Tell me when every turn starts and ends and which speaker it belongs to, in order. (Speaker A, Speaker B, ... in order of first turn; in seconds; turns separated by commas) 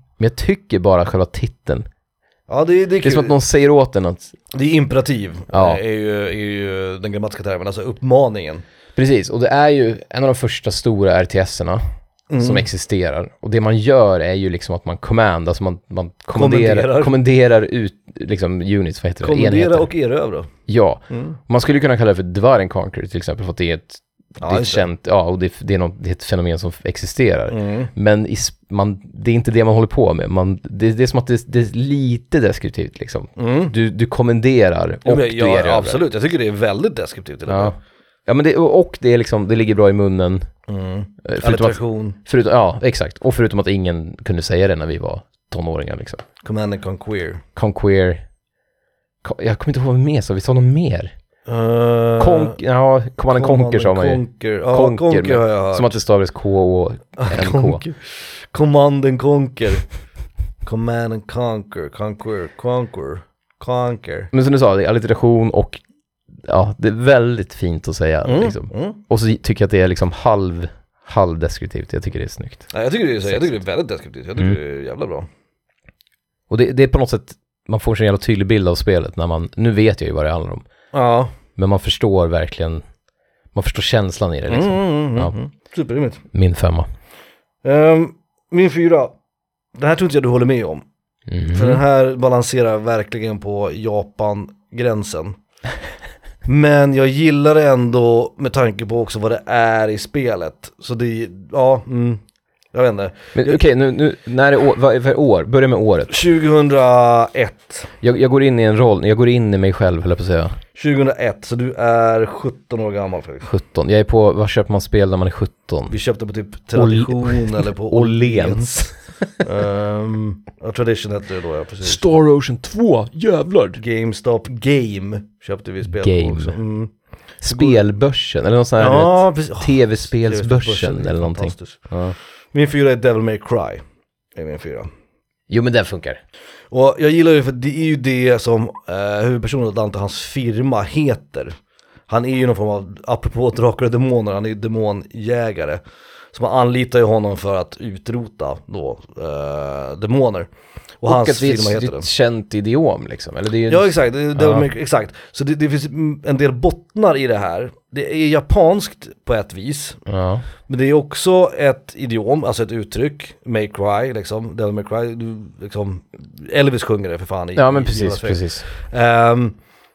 Speaker A: 0.2-1.9, Speaker B: 2.5-3.4, Speaker A: 3.0-4.4, Speaker B: 4.5-8.6, Speaker A: 5.5-5.8, Speaker A: 9.0-11.8, Speaker B: 12.3-12.7, Speaker A: 12.4-19.9, Speaker B: 16.3-17.1, Speaker B: 19.2-20.5, Speaker A: 20.7-36.0, Speaker B: 21.1-21.4, Speaker B: 24.4-24.9, Speaker B: 27.5-27.9, Speaker B: 33.4-33.8, Speaker B: 35.0-37.8, Speaker A: 37.5-40.5, Speaker B: 40.7-42.2, Speaker A: 41.2-46.2, Speaker B: 46.4-47.4, Speaker A: 47.5-48.2, Speaker A: 49.2-51.1, Speaker B: 51.5-52.6, Speaker A: 52.2-57.8, Speaker B: 53.4-56.0, Speaker B: 57.2-59.9, Speaker B: 60.6-64.3, Speaker A: 64.3-65.8, Speaker A: 66.4-72.7, Speaker B: 68.2-69.0, Speaker B: 72.7-75.3, Speaker A: 76.5-80.7, Speaker B: 80.9-81.3, Speaker A: 81.6-82.8, Speaker A: 83.5-85.3, Speaker B: 84.5-86.2, Speaker A: 86.3-86.9, Speaker B: 87.6-89.1, Speaker B: 89.8-90.8, Speaker A: 91.3-91.8, Speaker B: 91.5-95.4, Speaker B: 96.5-102.2, Speaker B: 102.7-103.6, Speaker A: 103.4-106.2, Speaker B: 106.1-107.9, Speaker A: 108.0-110.6, Speaker B: 110.8-113.5, Speaker A: 113.4-115.9, Speaker B: 115.9-122.0, Speaker A: 116.8-119.2, Speaker A: 121.8-123.8, Speaker B: 123.8-126.9, Speaker A: 125.8-126.6, Speaker A: 127.4-132.2, Speaker B: 127.5-127.8, Speaker B: 128.8-131.8, Speaker B: 132.5-133.8, Speaker B: 134.4-134.9, Speaker A: 135.5-136.2, Speaker B: 136.7-141.5, Speaker B: 142.1-145.8, Speaker B: 146.3-150.5, Speaker B: 151.0-152.1, Speaker A: 151.1-154.7, Speaker B: 153.7-160.0, Speaker A: 160.1-160.4, Speaker B: 160.7-169.6, Speaker A: 167.6-168.6